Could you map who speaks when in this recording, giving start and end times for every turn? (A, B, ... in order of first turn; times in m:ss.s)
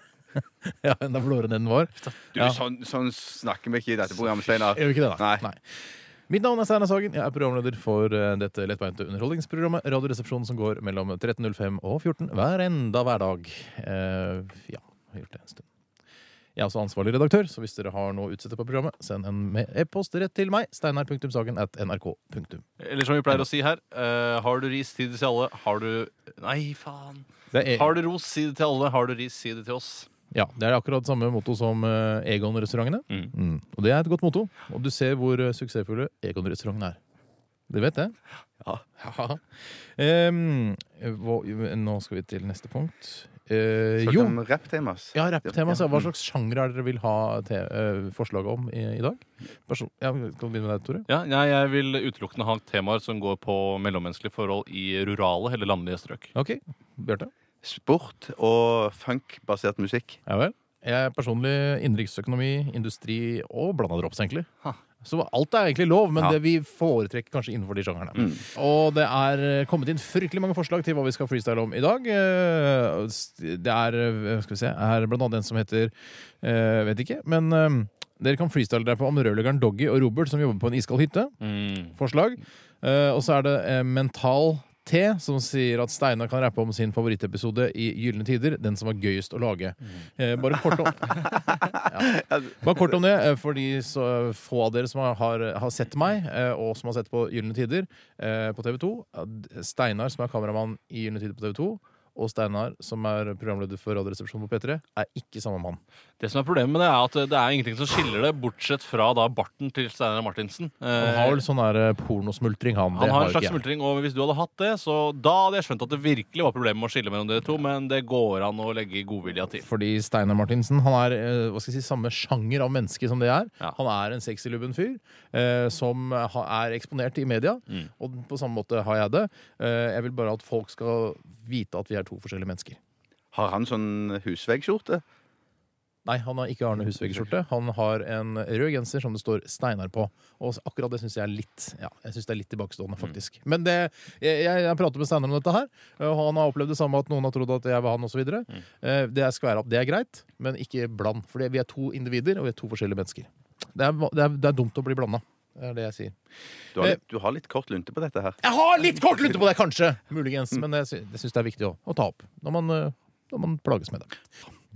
0:00.6-0:02.6 A
0:02.4-0:05.4 B
0:04.4-0:05.6 A
0:06.3-0:15.7 A
0:16.6-0:22.6 A
0:22.8-0:30.1 C
0:27.5-0:28.0 A
0:30.3-0:37.0 A
0:37.7-0:38.2 A
0:39.0-0:39.4 A
0:40.0-0:44.4 A
0:44.0-0:45.8 B
0:45.1-0:51.1 A
0:51.1-0:56.3 C
0:56.3-0:57.3 A
0:57.6-1:00.2 B
1:00.3-1:04.5 A
1:05.0-1:21.4 A
1:08.2-1:08.4 B
1:21.4-1:21.9 C
1:21.9-1:45.8 A
1:31.6-1:32.6 B
1:46.2-1:51.4 C
1:51.0-1:53.6 A
1:52.9-1:59.6 C
1:59.6-2:12.8 A
2:13.3-2:15.0 B
2:16.1-2:36.1 A
2:36.8-2:38.4 B
2:38.4-2:44.1 A